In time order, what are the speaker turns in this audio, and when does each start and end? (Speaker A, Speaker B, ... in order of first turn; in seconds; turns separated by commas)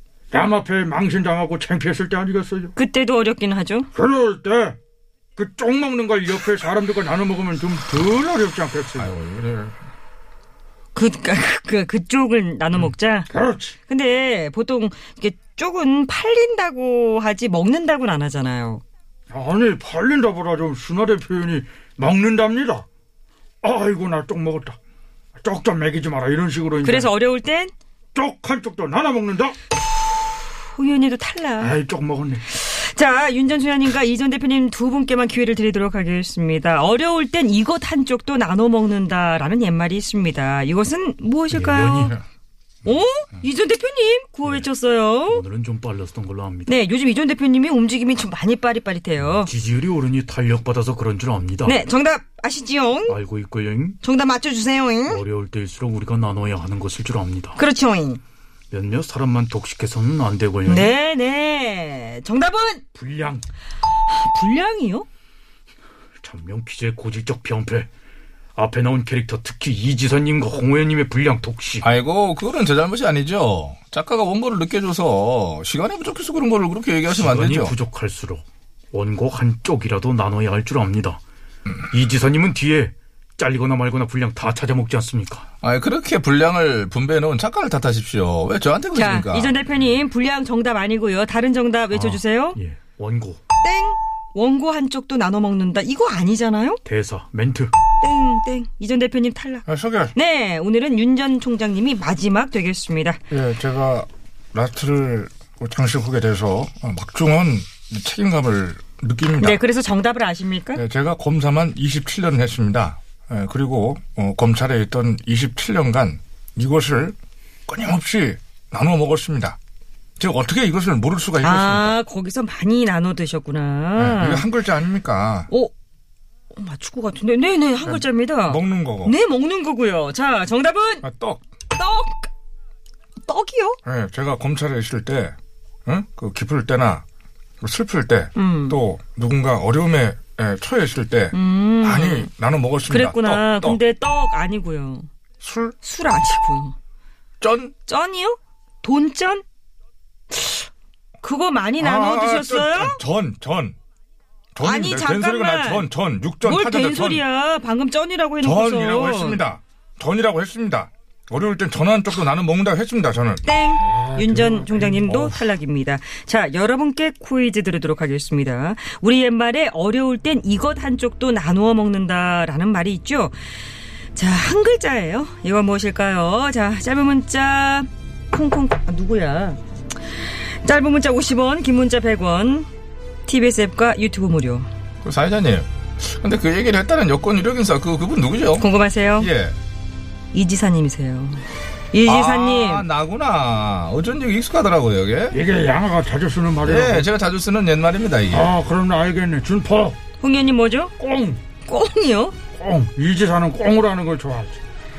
Speaker A: 0.3-2.7, Speaker B: 2.8-3.9, Speaker A: 3.9-4.8, Speaker A: 5.3-9.1, Speaker C: 9.2-9.7, Speaker B: 10.9-13.3, Speaker A: 13.3-13.8, Speaker B: 13.9-18.8, Speaker A: 19.3-22.8, Speaker A: 23.6-24.8, Speaker A: 25.4-27.1, Speaker B: 26.8-27.7, Speaker A: 28.1-29.6, Speaker B: 30.7-31.8, Speaker A: 31.6-32.4, Speaker B: 32.5-42.1, Speaker D: 41.5-42.2, Speaker B: 42.8-45.4, Speaker D: 45.3-46.7, Speaker B: 46.6-49.5, Speaker D: 49.2-51.8, Speaker B: 51.6-53.2, Speaker D: 53.1-54.0, Speaker B: 54.0-55.2, Speaker D: 55.1-57.6, Speaker B: 57.5-58.2, Speaker D: 58.7-60.9, Speaker B: 60.6-62.8, Speaker D: 63.0-63.4, Speaker B: 64.1-65.1, Speaker D: 66.2-67.9, Speaker D: 68.5-71.9, Speaker C: 71.8-77.7, Speaker D: 77.1-81.2, Speaker D: 81.9-85.5, Speaker C: 85.6-89.5, Speaker B: 88.9-92.6, Speaker D: 91.9-93.4, Speaker B: 93.6-96.8, Speaker D: 96.8-97.7, Speaker B: 98.0-103.2, Speaker E: 99.7-100.1, Speaker E: 103.3-109.6, Speaker B: 109.4-110.8, Speaker E: 110.7-117.1, Speaker E: 117.7-119.6, Speaker E: 120.2-121.9, Speaker B: 121.4-124.5, Speaker E: 124.0-125.5, Speaker B: 126.5-131.1, Speaker E: 127.8-129.1, Speaker E: 131.0-131.4, Speaker B: 131.7-132.3, Speaker B: 133.2-133.8, Speaker E: 133.8-135.3, Speaker E: 135.8-137.0, Speaker E: 137.6-143.8, Speaker B: 138.3-138.8, Speaker B: 141.3-142.3, Speaker B: 142.9-145.1, Speaker E: 145.4-145.7, Speaker B: 145.8-146.7, Speaker E: 147.4-147.7, Speaker B: 147.8-149.4, Speaker B: 150.3-150.7, Speaker B: 151.2-153.0, Speaker E: 151.8-153.7, Speaker E: 154.5-157.2, Speaker B: 154.6-155.9, Speaker B: 156.4-159.4, Speaker E: 158.4-163.4, Speaker B: 163.4-173.3, Speaker A: 163.8-165.3, Speaker B: 174.1-179.6, Speaker B: 180.6-182.7, Speaker B: 183.2-184.7, Speaker C: 185.0-189.6, Speaker B: 188.6-189.3, Speaker B: 190.3-192.8, Speaker C: 192.1-195.4, Speaker A: 195.3-197.1, Speaker C: 196.6-198.5, Speaker A: 198.3-200.0, Speaker B: 200.2-200.9, Speaker A: 201.0-201.4, Speaker B: 201.7-202.3, Speaker A: 202.6-204.6